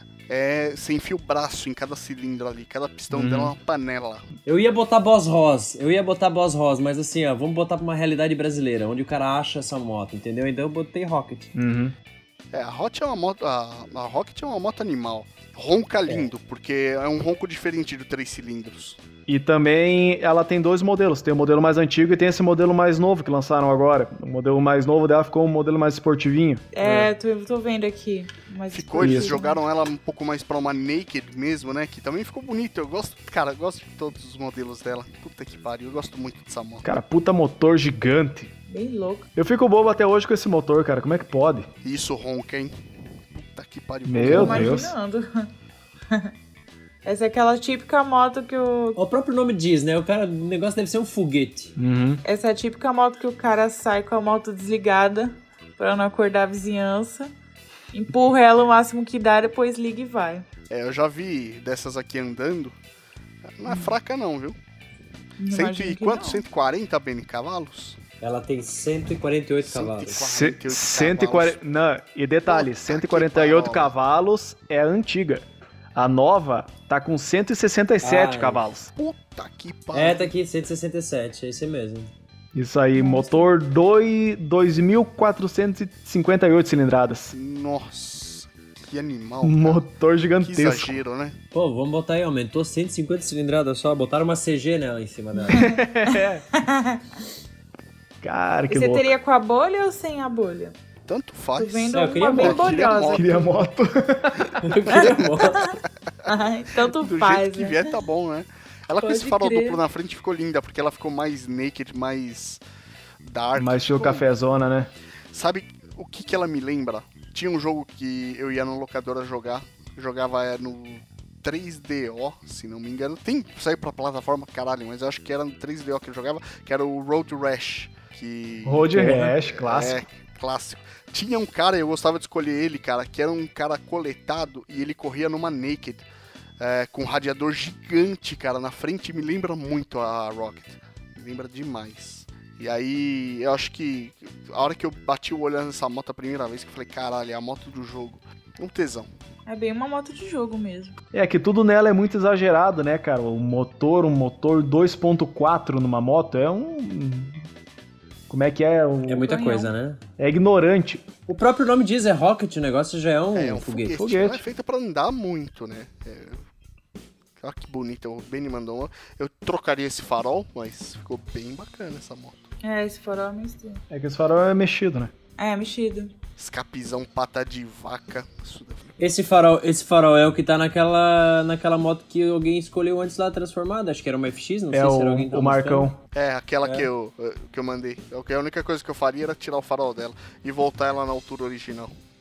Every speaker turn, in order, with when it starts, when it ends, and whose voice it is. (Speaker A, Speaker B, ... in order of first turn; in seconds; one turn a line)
Speaker A: 0.3-4.2
Speaker B: 3.1-3.5
Speaker C: 4.5-11.5
Speaker B: 11.5-11.9
Speaker A: 12.5-19.0
Speaker B: 19.3-26.6
Speaker D: 26.7-29.6
Speaker C: 26.8-27.1
Speaker A: 28.7-36.9
Speaker B: 29.0-29.4
Speaker B: 36.8-38.5
Speaker D: 38.7-39.3
Speaker B: 39.4-41.7
Speaker A: 41.8-42.8
Speaker A: 43.3-44.8
Speaker B: 44.0-44.9
Speaker D: 44.2-45.5
Speaker C: 44.3-44.5
Speaker D: 47.0-49.0
Speaker C: 49.0-51.7
Speaker B: 51.8-52.2
Speaker D: 52.2-57.3
Speaker D: 57.9-60.5
Speaker A: 60.7-62.7
Speaker A: 63.6-64.6
Speaker D: 63.7-63.9
Speaker D: 65.4-66.4
Speaker A: 65.5-68.0
Speaker C: 68.2-70.2
Speaker A: 69.6-71.6
Speaker B: 70.2-78.9
Speaker A: 72.5-73.9
Speaker C: 78.0-78.7
Speaker A: 78.9-80.3
Speaker C: 79.9-82.1
Speaker B: 82.5-87.3
Speaker D: 83.0-83.5
Speaker A: 87.3-89.8
Speaker B: 89.4-91.0
Speaker A: 90.4-91.4
Speaker C: 91.5-95.7
Speaker D: 95.5-97.0
Speaker B: 95.5-96.4
Speaker B: 98.2-99.1
Speaker D: 98.7-100.7
Speaker A: 101.0-103.3
Speaker D: 101.6-103.5
Speaker C: 101.9-102.9
Speaker B: 103.1-104.7
Speaker C: 104.6-105.7
Speaker D: 104.9-105.7
Speaker D: 106.2-107.8
Speaker A: 106.9-112.6
Speaker D: 109.0-109.8
Speaker A: 113.2-114.2
Speaker B: 113.5-114.9
Speaker A: 115.3-136.1
Speaker B: 128.6-130.0
Speaker A: 136.6-149.1
Speaker D: 149.4-151.0
Speaker B: 151.1-157.4
Speaker B: 158.3-159.3
Speaker C: 159.1-160.0
Speaker D: 159.2-159.7
Speaker B: 160.2-161.0
Speaker C: 161.3-164.0
Speaker A: 163.3-166.4
Speaker B: 163.9-164.4
Speaker A: 167.4-172.4
Speaker D: 172.6-173.8
Speaker B: 173.9-175.1
Speaker D: 175.4-176.1
Speaker A: 176.4-178.9
Speaker C: 179.0-185.9
Speaker B: 184.7-186.0
Speaker A: 186.1-191.9
Speaker C: 186.6-186.9